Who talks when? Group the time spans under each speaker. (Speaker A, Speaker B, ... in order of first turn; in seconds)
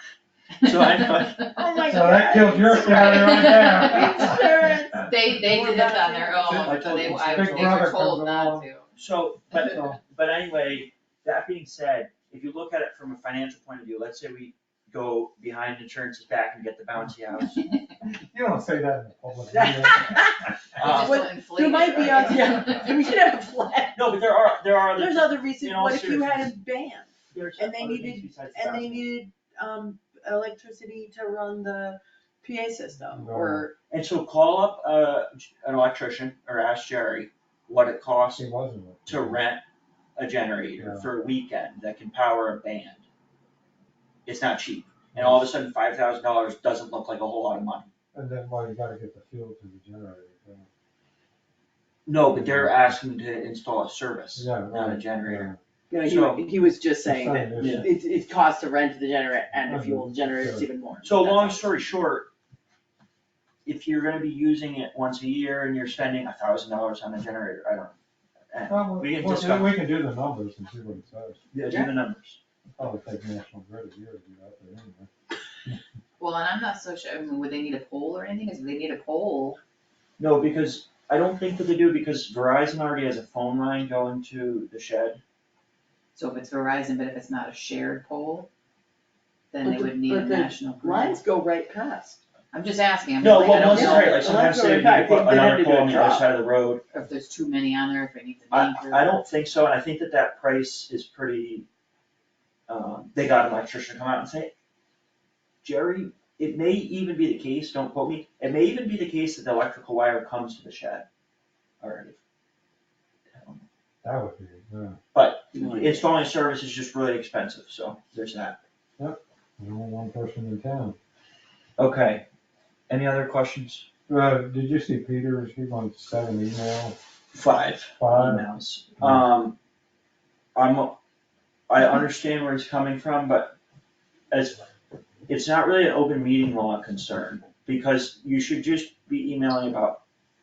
Speaker A: 0.6-1.6, 2.7-8.9, 20.8-22.9, 61.3-61.5, 76.2-79.6, 86.1-88.5, 89.5-91.2, 92.5-94.2, 96.9-99.1
Speaker B: 0.6-1.4, 6.6-7.8, 8.9-17.6, 20.8-21.3, 21.9-22.3, 23.9-26.5, 27.3-29.1, 33.9-38.4, 39.0-39.6, 40.1-43.0, 44.2-47.9, 52.0-55.5, 56.0-56.4, 57.6-57.9, 61.0-62.3, 63.6-68.0, 68.5-69.8, 71.5-72.4, 80.2-85.2, 93.2-96.8, 98.5-101.7, 102.7-104.5, 105.6-111.0, 111.8-112.2, 113.3-113.6, 115.1-118.6, 121.8-122.2, 122.9-123.9, 127.3-129.5, 130.5-130.9, 131.7-133.6, 134.3-134.6, 135.3-140.0
Speaker C: 1.6-6.7, 19.5-24.1, 24.9-33.7, 55.9-61.6, 71.7-71.9, 89.6-92.2, 93.6-96.2, 115.5-116.0
Speaker D: 1.9-4.5, 6.7-8.7, 9.5-10.0, 18.3-20.2, 33.1-33.7, 38.4-39.4, 40.8-41.1, 45.1-45.5, 48.1-50.7, 52.3-52.8, 54.4-55.6, 57.0-57.9, 59.6-60.6, 68.7-71.4, 72.8-75.1, 114.0-115.0, 119.0-121.0, 124.1-127.0, 128.0-128.4